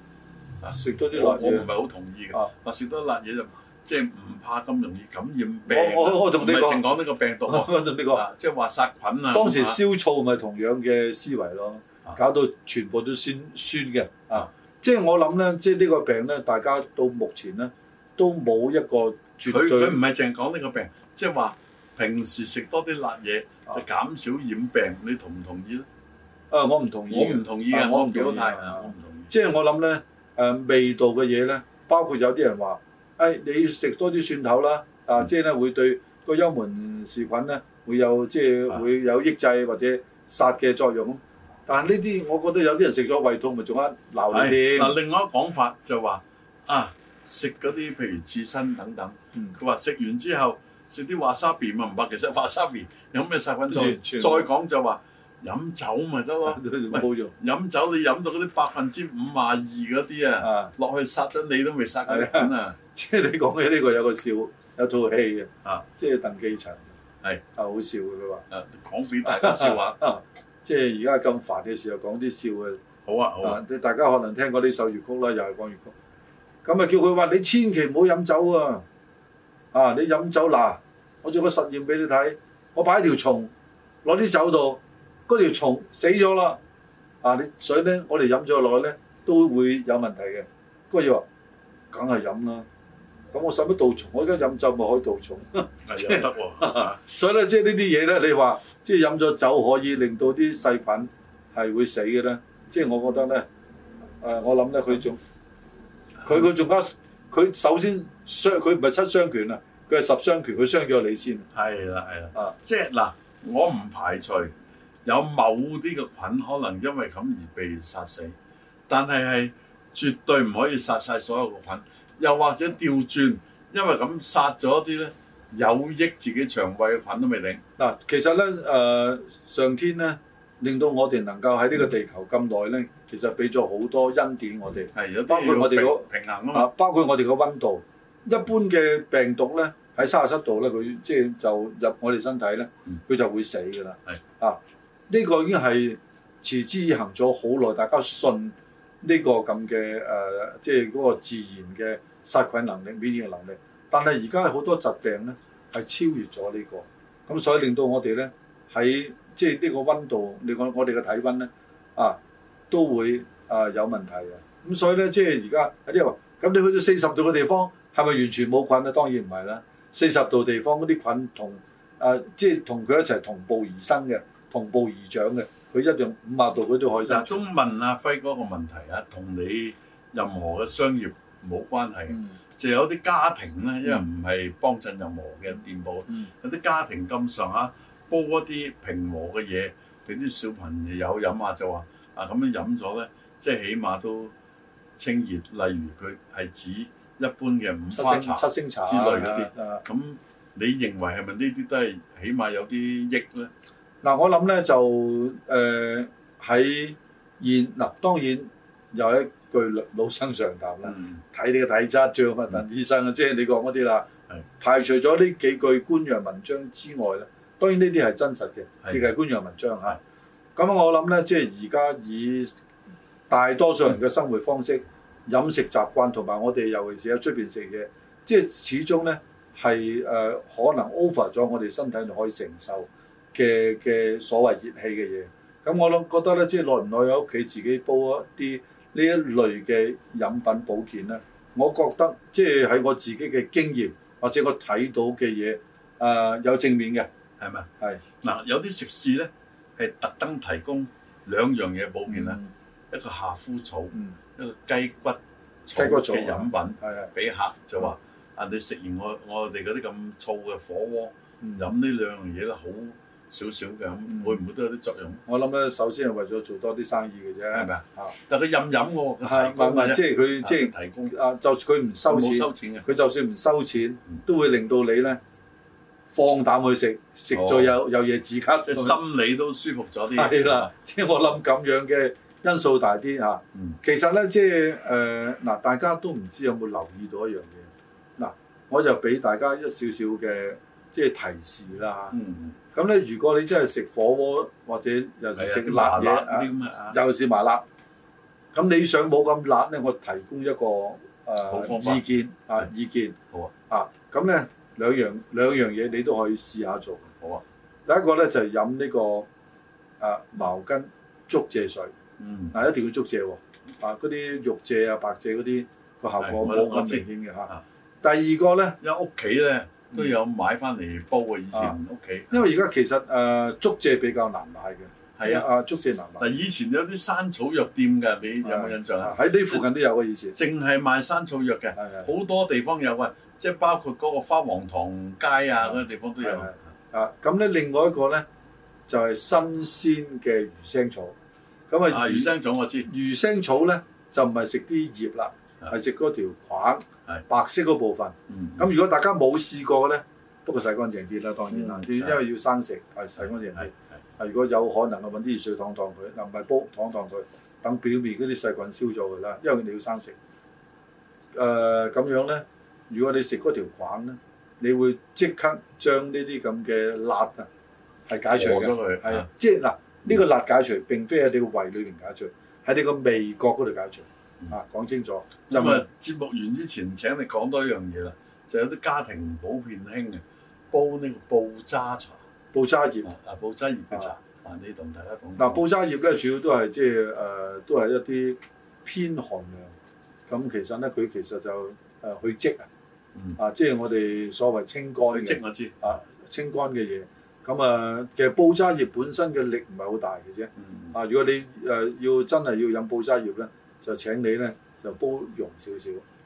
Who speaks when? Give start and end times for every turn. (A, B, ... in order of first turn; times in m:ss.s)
0:00.6-0:09.8 A
0:00.7-0:01.7 B
0:05.6-0:06.9 B
0:07.5-0:08.2 B
0:09.3-0:20.0 B
0:19.4-0:25.9 A
0:26.5-0:45.0 B
0:27.1-0:29.3 A
0:44.3-1:02.8 A
0:53.7-0:54.5 B
0:56.4-0:57.3 B
1:00.4-1:00.7 B
1:02.0-1:06.9 B
1:07.6-1:08.4 B
1:08.5-1:10.0 A
1:09.2-1:12.8 B
1:13.0-1:13.6 A
1:13.4-1:15.9 B
1:16.6-1:18.8 B
1:19.7-1:23.5 B
1:24.0-1:26.6 B
1:27.2-1:31.2 B
1:31.9-1:32.6 B
1:33.3-1:43.5 B
1:35.9-1:37.0 A
1:44.2-1:45.2 B
1:46.2-1:51.5 B
1:51.5-1:54.5 A
1:55.0-1:58.4 A
1:58.9-2:07.6 A
2:07.8-2:42.2 B
2:14.9-2:16.7 A
2:42.7-2:57.4 B
2:57.0-3:14.3 A
3:02.1-3:02.4 B
3:15.0-3:23.5 A
3:17.9-3:19.8 B
3:24.0-3:34.1 B
3:30.8-3:31.2 A
3:34.6-3:40.0 B
3:40.6-3:42.6 B
3:43.3-4:07.1 B
4:07.4-4:07.7 A
4:08.2-4:25.2 A
4:12.1-4:12.5 B
4:15.7-4:17.1 B
4:21.4-4:21.7 B
4:24.1-4:24.4 B
4:25.3-4:28.2 B
4:27.5-4:31.1 A
4:29.2-4:35.2 B
4:32.1-4:32.9 A
4:36.1-4:39.0 B
4:37.3-4:37.7 A
4:38.6-4:40.7 A
4:40.1-4:52.2 B
4:52.1-4:52.6 A
4:52.7-4:57.6 B
4:55.4-4:57.0 A
4:58.5-5:03.2 B
5:01.5-5:02.0 A
5:03.7-5:07.1 B
5:07.9-5:09.3 B
5:10.0-5:11.9 B
5:12.2-5:12.5 A
5:12.5-5:17.5 B
5:16.2-5:17.6 A
5:18.0-5:18.8 B
5:18.8-5:22.4 A
5:22.3-5:26.4 B
5:25.2-5:25.4 A
5:26.2-5:29.6 A
5:28.4-5:30.4 B
5:30.4-5:36.6 A
5:31.8-5:32.1 B
5:35.7-5:38.2 B
5:38.9-5:41.1 B
5:41.7-5:42.3 B
5:41.9-5:42.9 A
5:42.9-6:00.2 B
5:48.3-5:48.6 A
5:51.5-5:52.2 A
5:53.2-5:53.7 A
6:01.3-6:07.5 B
6:08.1-6:15.8 B
6:08.3-6:09.3 A
6:15.5-6:22.2 A
6:22.5-6:23.1 B
6:23.0-6:25.6 A
6:25.4-6:29.7 B
6:30.3-6:32.7 B
6:33.4-6:46.0 B
6:35.1-6:35.8 A
6:40.6-6:40.9 A